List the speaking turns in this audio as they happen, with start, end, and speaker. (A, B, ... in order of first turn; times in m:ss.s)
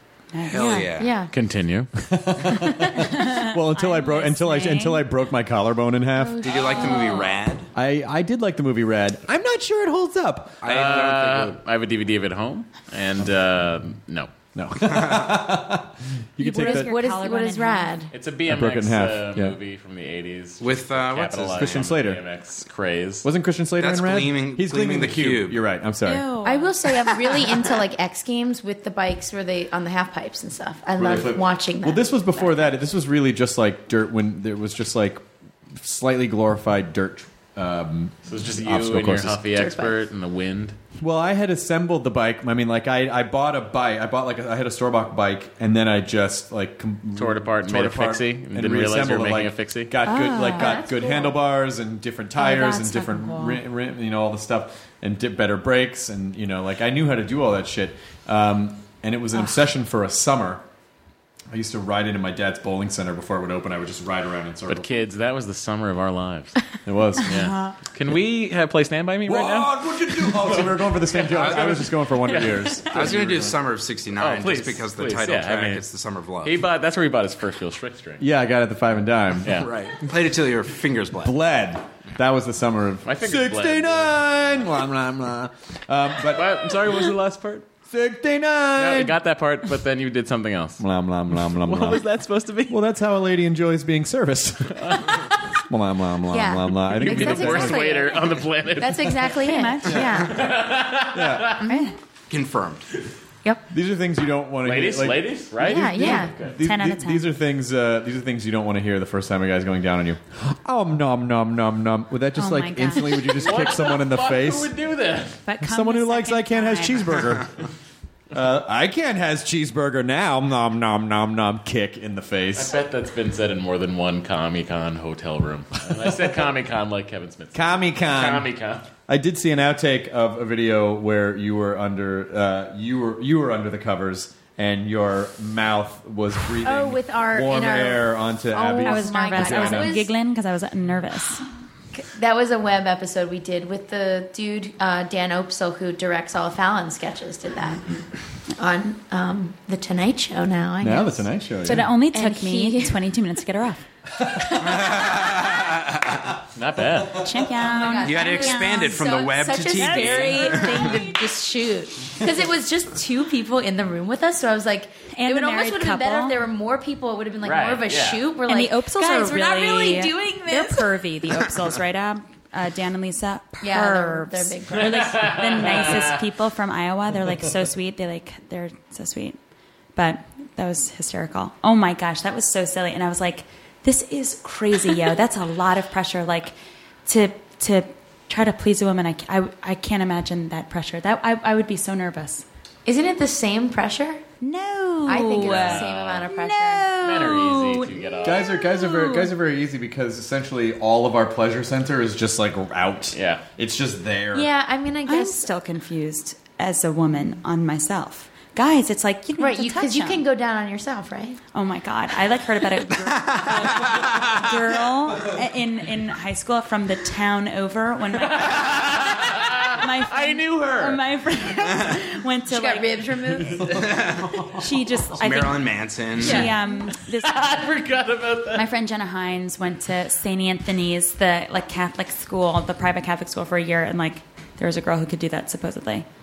0:00.3-0:00.9 A
0:00.5-0:01.1 B
0:01.0-0:01.3 C
0:01.3-0:01.9 D
0:02.0-0:06.6 E
0:02.9-0:05.0 A
0:06.2-0:07.3 C
0:06.4-0:07.7 B
0:06.8-0:07.2 A
0:07.7-0:10.6 E
0:10.6-0:11.6 B
0:10.6-0:14.3 D
0:14.5-0:16.9 E
0:14.9-0:15.3 B
0:16.4-0:18.0 A
0:16.5-0:18.1 C
0:18.1-0:23.2 D
0:18.4-0:19.6 E
0:20.6-0:21.8 B
0:21.5-0:22.2 E
0:23.2-0:26.3 E
0:23.8-0:25.6 B
0:26.0-0:26.7 A
0:26.4-0:32.7 C
0:30.9-0:35.2 E
0:35.8-0:39.5 E
0:38.3-0:40.8 D
0:39.5-0:40.0 C
0:41.0-1:00.6 E
0:47.2-0:49.9 D
0:50.0-0:50.8 A
0:50.2-0:51.4 C
0:52.4-0:53.6 A
1:01.5-1:04.9 E
1:04.7-1:06.7 D
1:06.8-1:07.5 E
1:07.2-1:13.5 D
1:07.4-1:07.8 A
1:09.2-1:13.5 E
1:11.3-1:11.8 B
1:12.9-1:16.5 B
1:14.2-1:15.8 D
1:16.4-1:18.2 D
1:18.2-1:19.7 E
1:19.4-1:19.7 D
1:19.5-1:21.3 B
1:21.2-1:27.1 E
1:23.0-1:24.7 D
1:26.3-1:27.6 D
1:27.9-1:29.2 E
1:28.8-1:30.8 D
1:30.8-1:32.0 E
1:31.4-1:32.8 D
1:32.7-1:38.0 E
1:34.8-1:35.1 D
1:36.3-1:40.4 C
1:36.9-1:39.4 D
1:39.4-1:40.2 A
1:39.9-1:40.5 E
1:40.3-1:41.6 D
1:41.1-1:41.6 E
1:41.6-1:41.9 C
1:41.6-1:42.0 A
1:42.3-1:42.8 B
1:43.7-1:54.7 E
1:44.6-1:46.6 D
1:45.6-1:46.3 C
1:46.6-1:47.3 A
1:52.4-1:53.4 A
1:53.4-1:55.4 D
1:55.4-1:57.2 A
1:55.6-1:57.5 E
1:58.3-2:02.8 E
2:02.5-2:08.8 D
2:07.5-2:08.5 E
2:09.1-2:20.0 E
2:16.6-2:20.1 C
2:18.8-2:21.5 A
2:21.9-2:33.0 C
2:30.8-2:31.9 E
2:31.6-2:33.8 A
2:34.3-2:34.6 E
2:34.4-2:35.2 C
2:34.8-2:36.0 B
2:36.5-2:37.2 D
2:37.1-2:39.2 A
2:37.6-2:51.0 C
2:38.0-2:41.0 B
2:39.7-2:41.2 A
2:45.1-2:46.4 A
2:47.4-2:48.2 D
2:48.5-2:59.4 A
2:53.6-2:55.9 C
2:54.9-2:56.1 D
2:59.9-3:06.5 A
3:07.0-3:12.4 A
3:12.8-3:14.2 C
3:14.4-3:19.3 A
3:15.0-3:16.9 C
3:15.4-3:16.2 D
3:17.0-3:18.4 D
3:18.2-3:24.5 E
3:23.1-3:23.4 D
3:24.3-3:25.5 C
3:25.0-3:30.2 A
3:29.4-3:31.4 C
3:31.5-3:43.5 A
3:38.3-3:41.0 D
3:42.5-3:44.0 C
3:43.9-3:44.2 B
3:44.4-3:47.7 A
3:45.2-3:46.4 B
3:46.2-3:46.5 C
3:46.2-3:48.6 D
3:48.5-3:56.0 A